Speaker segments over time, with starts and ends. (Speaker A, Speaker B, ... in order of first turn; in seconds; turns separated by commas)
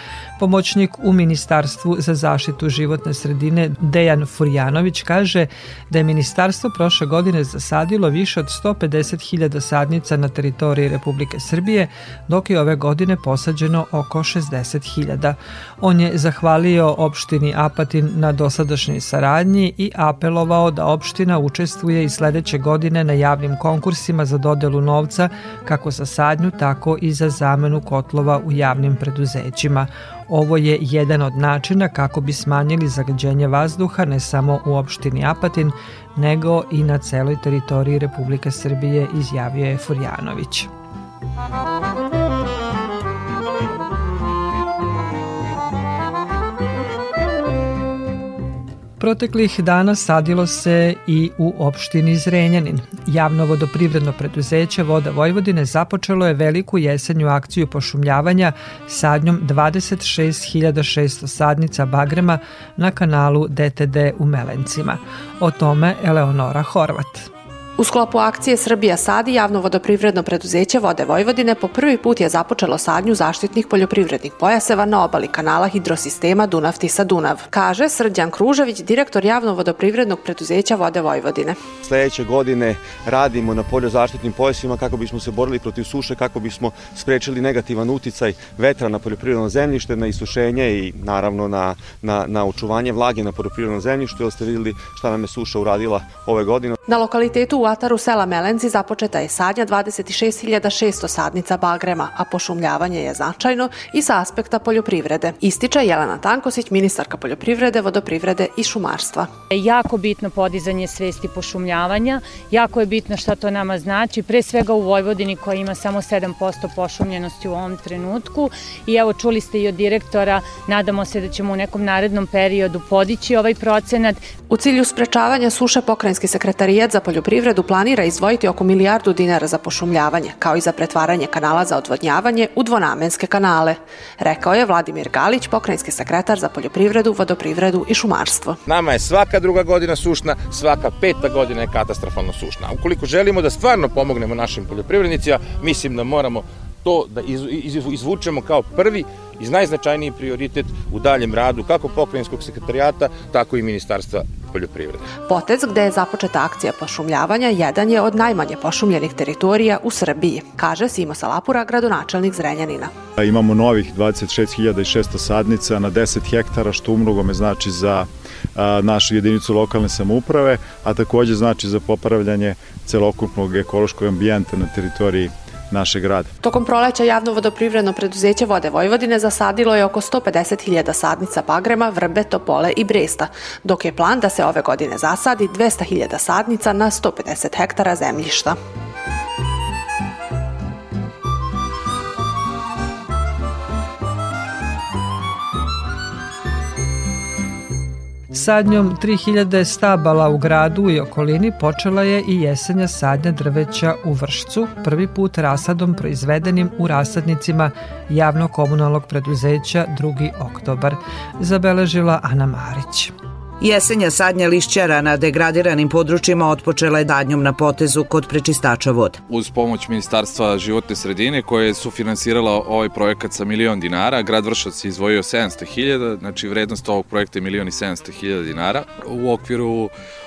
Speaker A: 0.4-40.7, Speaker A: 49.0-67.3, Speaker B: 67.8-81.6, Speaker C: 81.8-96.8, Speaker B: 96.9-109.3, Speaker D: 109.5-124.3, Speaker B: 124.5-138.6, Speaker E: 138.7-155.1, Speaker B: 155.2-162.9, Speaker F: 163.2-176.3, Speaker B: 176.4-188.6, Speaker A: 198.3-213.1, Speaker G: 213.6-219.2, Speaker H: 219.3-229.9